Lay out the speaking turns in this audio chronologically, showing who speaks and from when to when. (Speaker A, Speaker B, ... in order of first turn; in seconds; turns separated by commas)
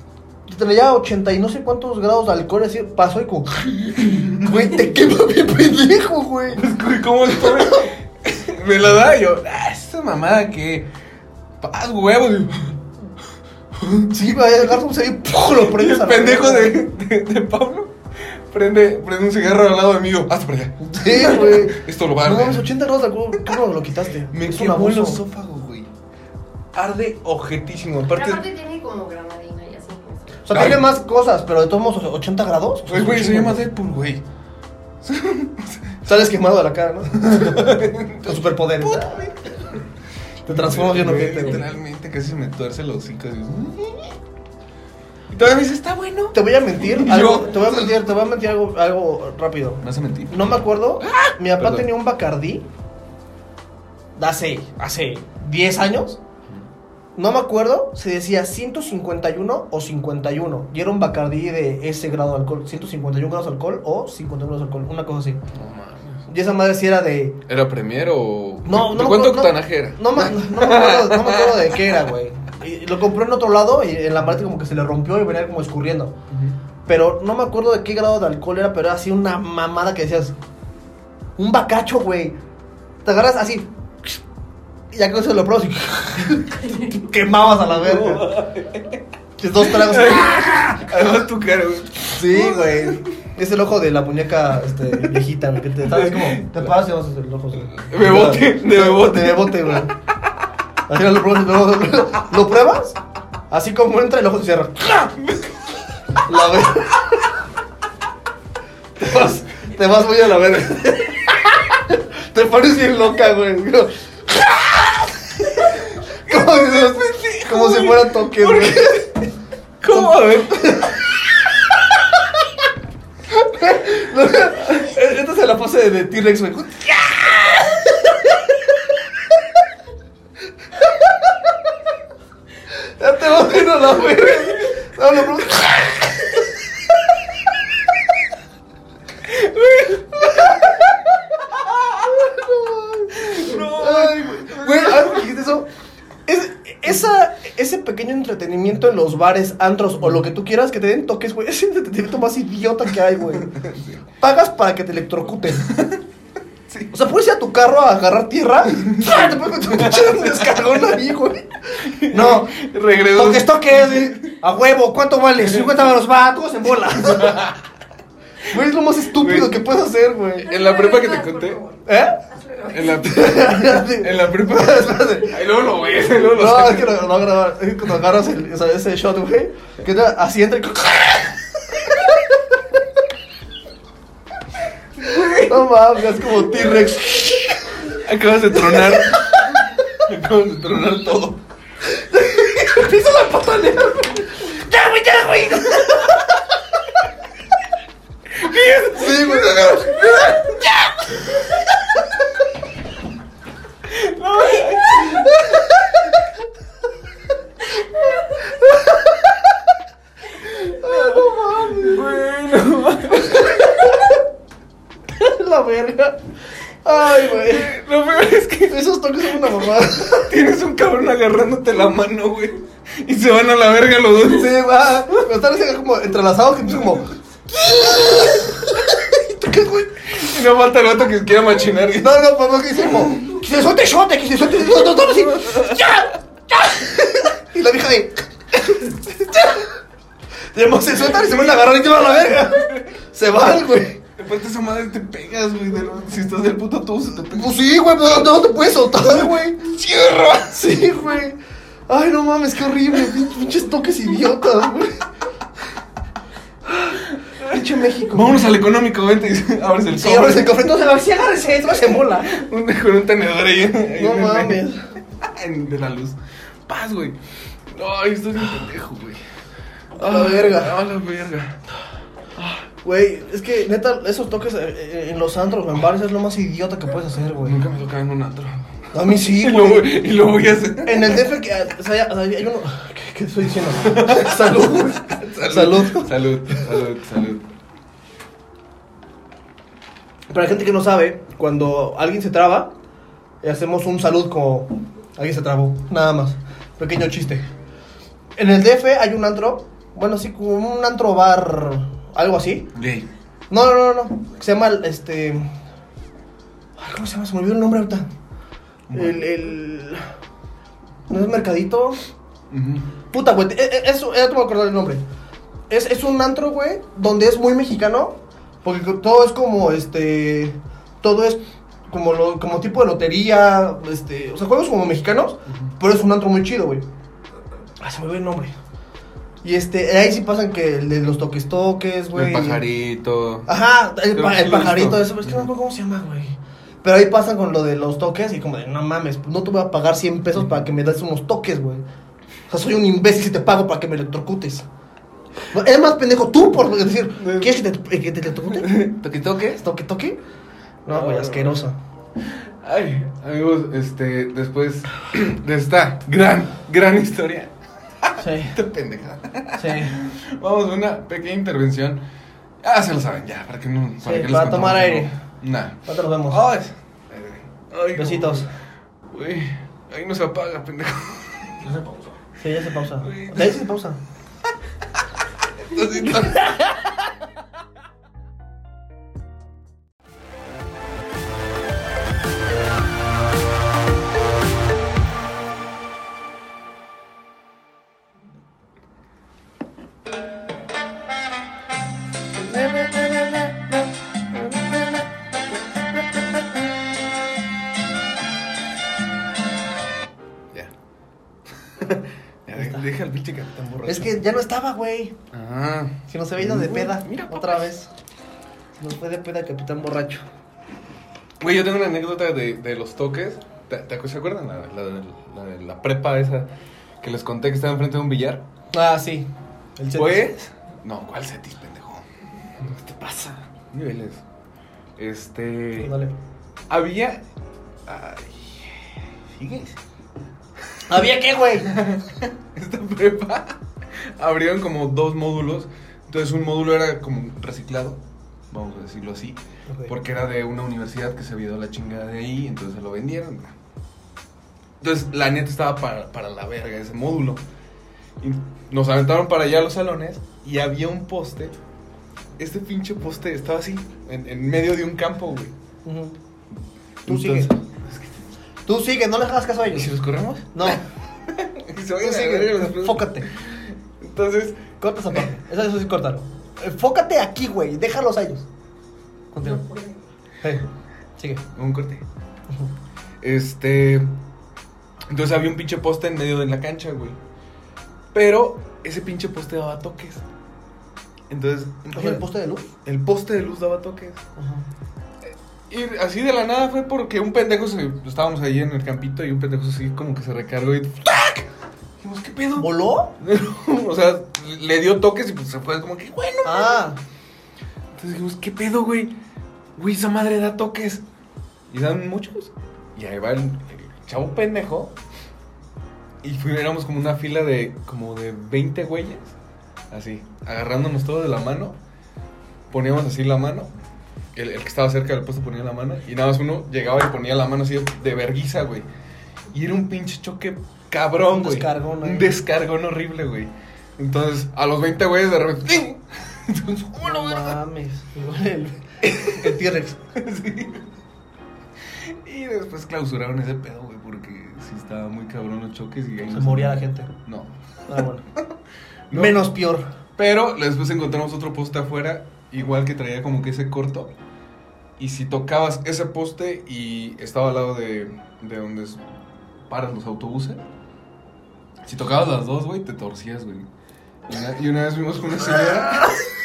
Speaker A: 0.5-6.6, Speaker B: 4.0-4.3, Speaker B: 6.5-10.9, Speaker A: 7.3-7.9, Speaker B: 11.6-12.8, Speaker B: 13.7-14.2, Speaker A: 14.1-16.8, Speaker B: 15.3-22.7, Speaker A: 20.8-25.2, Speaker B: 24.3-25.9, Speaker B: 26.7-28.4, Speaker C: 28.1-30.5, Speaker A: 30.4-33.6, Speaker B: 30.5-30.8, Speaker B: 32.9-34.2, Speaker B: 35.0-36.1, Speaker A: 36.0-39.3, Speaker B: 37.1-39.9, Speaker B: 40.4-44.1, Speaker A: 40.5-41.6, Speaker B: 45.3-48.1, Speaker A: 46.3-52.6, Speaker B: 49.8-50.4, Speaker B: 51.0-51.9, Speaker A: 54.1-56.2, Speaker A: 57.1-65.4, Speaker B: 65.5-66.3, Speaker A: 66.3-67.4, Speaker B: 67.5-72.0, Speaker A: 68.6-76.2, Speaker B: 76.3-76.5, Speaker A: 76.8-80.3, Speaker A: 81.4-82.3, Speaker A: 83.0-84.2, Speaker A: 84.9-88.4, Speaker B: 87.6-89.0, Speaker A: 89.4-90.6, Speaker B: 89.6-93.1, Speaker A: 92.1-99.9, Speaker B: 94.8-96.7, Speaker B: 97.7-100.0, Speaker A: 100.9-103.0, Speaker A: 103.5-105.1, Speaker B: 105.1-105.8, Speaker A: 106.2-107.3, Speaker A: 109.0-119.1, Speaker B: 115.6-119.2, Speaker B: 119.8-121.0, Speaker A: 119.9-121.0, Speaker A: 123.4-128.1, Speaker A: 132.7-136.5, Speaker B: 139.2-142.1, Speaker A: 140.2-140.7, Speaker A: 141.9-145.7, Speaker B: 143.1-145.2, Speaker A: 146.2-153.5, Speaker B: 153.3-154.0, Speaker A: 154.2-155.7, Speaker B: 155.6-156.0, Speaker B: 156.7-156.9, Speaker A: 156.9-162.6, Speaker B: 158.8-161.0, Speaker B: 161.8-164.3, Speaker A: 163.1-167.5, Speaker B: 165.4-165.8, Speaker B: 166.8-167.6, Speaker A: 168.5-170.5, Speaker B: 169.1-169.6, Speaker B: 170.4-171.6, Speaker C: 170.4-173.1, Speaker A: 171.8-172.2, Speaker B: 172.7-177.1, Speaker A: 173.0-175.3, Speaker A: 176.2-182.2, Speaker B: 185.0-185.7, Speaker A: 185.2-187.9, Speaker B: 186.4-186.8, Speaker B: 187.9-191.4, Speaker A: 188.6-189.2, Speaker A: 191.9-196.2, Speaker B: 198.3-201.6, Speaker A: 198.9-200.2, Speaker B: 203.8-206.0, Speaker A: 208.5-209.1, Speaker A: 210.5-212.2, Speaker B: 210.7-213.9, Speaker A: 213.3-214.1, Speaker A: 215.1-216.2, Speaker A: 216.8-217.7, Speaker B: 217.1-224.6, Speaker A: 218.7-220.3, Speaker A: 224.2-230.0, Speaker B: 230.0-232.2, Speaker A: 231.9-239.7, Speaker B: 232.8-233.4, Speaker B: 234.5-236.1, Speaker A: 240.5-244.0, Speaker B: 240.9-242.9, Speaker B: 244.2-247.6, Speaker A: 247.3-249.6, Speaker B: 248.9-250.7, Speaker A: 250.5-251.4, Speaker A: 251.9-255.1, Speaker A: 256.7-258.5, Speaker B: 257.2-260.7, Speaker A: 259.9-262.4, Speaker B: 261.9-267.2, Speaker A: 263.9-264.8, Speaker B: 267.7-269.2, Speaker A: 269.9-270.8, Speaker B: 269.9-271.6, Speaker B: 272.4-272.7, Speaker A: 272.8-277.6, Speaker B: 277.4-281.2, Speaker A: 278.9-279.9, Speaker A: 280.8-286.7, Speaker B: 283.8-287.5, Speaker A: 290.3-292.7, Speaker A: 293.4-297.4, Speaker A: 298.4-302.7, Speaker B: 302.7-303.1, Speaker A: 303.5-305.5, Speaker A: 306.8-308.1, Speaker B: 308.9-309.2, Speaker A: 308.9-310.1, Speaker A: 311.1-312.0, Speaker B: 312.5-312.9, Speaker A: 313.1-315.0, Speaker A: 315.7-326.8, Speaker A: 327.8-328.5, Speaker A: 329.4-332.6, Speaker B: 332.1-333.5, Speaker A: 333.5-341.8, Speaker B: 334.1-335.5, Speaker A: 342.5-344.6, Speaker A: 345.5-348.9, Speaker B: 347.2-347.6, Speaker B: 348.5-349.6, Speaker A: 349.6-350.2, Speaker A: 350.9-351.8, Speaker B: 350.9-351.6, Speaker B: 352.2-362.0, Speaker A: 358.2-358.6, Speaker A: 359.6-360.0, Speaker B: 362.6-368.5, Speaker A: 364.0-365.1, Speaker A: 365.9-366.4, Speaker A: 367.9-368.5, Speaker B: 369.1-372.1, Speaker A: 372.4-374.0, Speaker B: 372.9-373.7, Speaker B: 375.6-376.9, Speaker B: 392.5-393.6, Speaker B: 401.7-404.2, Speaker A: 402.5-402.8, Speaker A: 403.8-405.1, Speaker B: 405.3-407.7, Speaker A: 406.1-407.9, Speaker A: 408.8-410.2, Speaker B: 411.4-416.5, Speaker B: 417.0-418.4, Speaker A: 418.7-420.3, Speaker B: 419.9-424.2, Speaker B: 425.0-425.9, Speaker A: 425.8-426.1, Speaker B: 426.7-427.2, Speaker B: 427.9-429.8, Speaker A: 430.9-431.7, Speaker B: 431.6-443.5, Speaker A: 439.7-439.9, Speaker B: 444.8-447.4, Speaker B: 448.2-451.6, Speaker B: 452.4-455.5, Speaker A: 455.8-456.1, Speaker B: 457.1-458.2, Speaker A: 457.1-457.5, Speaker A: 458.6-459.9, Speaker B: 459.7-464.7, Speaker A: 460.5-460.8, Speaker A: 462.0-463.3, Speaker A: 464.8-468.5, Speaker A: 469.3-469.6, Speaker C: 469.4-469.9, Speaker A: 471.2-471.4, Speaker B: 471.5-472.1, Speaker B: 473.2-474.1, Speaker B: 475.1-477.2, Speaker B: 478.1-480.2, Speaker B: 481.3-482.2, Speaker A: 481.9-482.7, Speaker B: 482.8-484.2, Speaker A: 484.4-484.6, Speaker B: 485.2-491.5, Speaker B: 492.0-492.7, Speaker A: 492.6-493.1, Speaker B: 493.2-496.8, Speaker A: 496.4-497.0, Speaker B: 497.9-499.1, Speaker B: 499.7-501.0, Speaker B: 501.7-504.9, Speaker B: 506.2-509.3, Speaker B: 509.9-511.8, Speaker B: 512.7-513.7, Speaker B: 514.3-518.9, Speaker B: 519.5-527.5, Speaker A: 521.2-522.3, Speaker A: 527.0-530.0, Speaker B: 529.0-529.5, Speaker B: 530.1-530.9, Speaker B: 532.0-538.0, Speaker A: 536.3-537.1, Speaker A: 537.9-538.2, Speaker B: 539.1-539.5, Speaker A: 539.1-539.9, Speaker B: 540.2-544.1, Speaker B: 545.0-549.0, Speaker B: 549.7-550.6, Speaker B: 551.8-553.7, Speaker B: 554.3-556.0